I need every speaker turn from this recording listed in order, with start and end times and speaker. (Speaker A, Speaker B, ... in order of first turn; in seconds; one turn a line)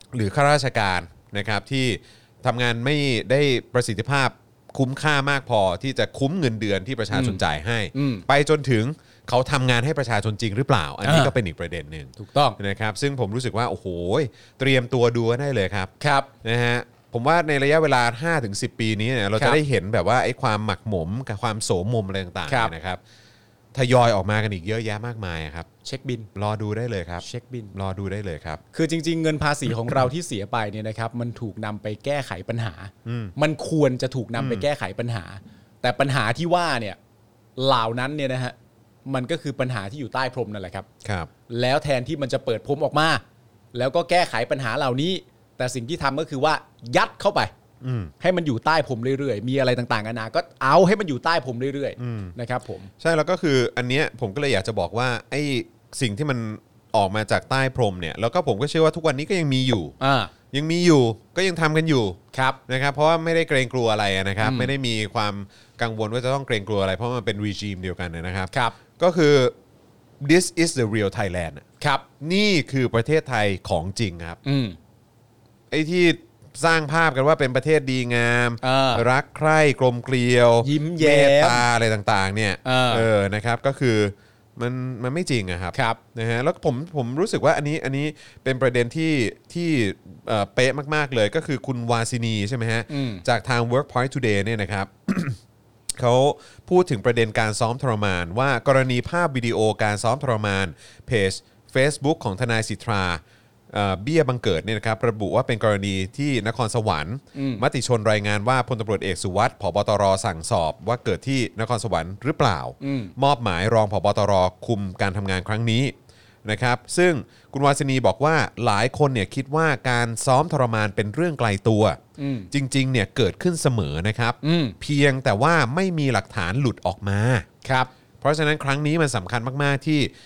Speaker A: 0.1-15.9
Speaker B: 7.1-7.4
Speaker B: 7.9-8.3
Speaker B: 11.0-11.3
Speaker B: 12.2-12.6
Speaker B: 16.0-16.3
Speaker A: 16.4-23.0
Speaker B: 22.5-22.7
Speaker A: 23.7-25.7
Speaker B: 25.8-26.3
Speaker A: 26.4-28.6
Speaker B: 27.2-27.8
Speaker B: 28.7-37.0
Speaker A: 33.1-33.3
Speaker A: 34.4-34.6
Speaker B: 37.6-38.5
Speaker B: 39.1-40.9
Speaker A: 41.0-41.3
Speaker B: 41.5-43.2
Speaker B: 43.7-47.5
Speaker A: 47.8-48.1
Speaker B: 48.2-52.9
Speaker A: 52.0-52.4
Speaker A: 53.0-60.0
Speaker B: 60.0-60.3
Speaker A: 60.5-69.5
Speaker B: 62.3-62.6
Speaker B: 64.4-64.7
Speaker A: 70.2-71.6
Speaker B: 71.8-72.0
Speaker A: 72.2-74.4
Speaker B: 74.5-74.8
Speaker A: 75.7-95.4
Speaker B: 78.6-79.1
Speaker B: 80.6-81.7
Speaker B: 82.7-83.1
Speaker B: 85.7-86.0
Speaker B: 92.9-93.2
Speaker A: 96.0-115.9
Speaker B: 107.3-107.6
Speaker B: 112.8-113.1
Speaker A: 116.5-122.0
Speaker B: 122.2-122.5
Speaker A: 122.5-127.5
Speaker B: 124.4-124.8
Speaker B: 127.7-127.9
Speaker A: 128.2-130.1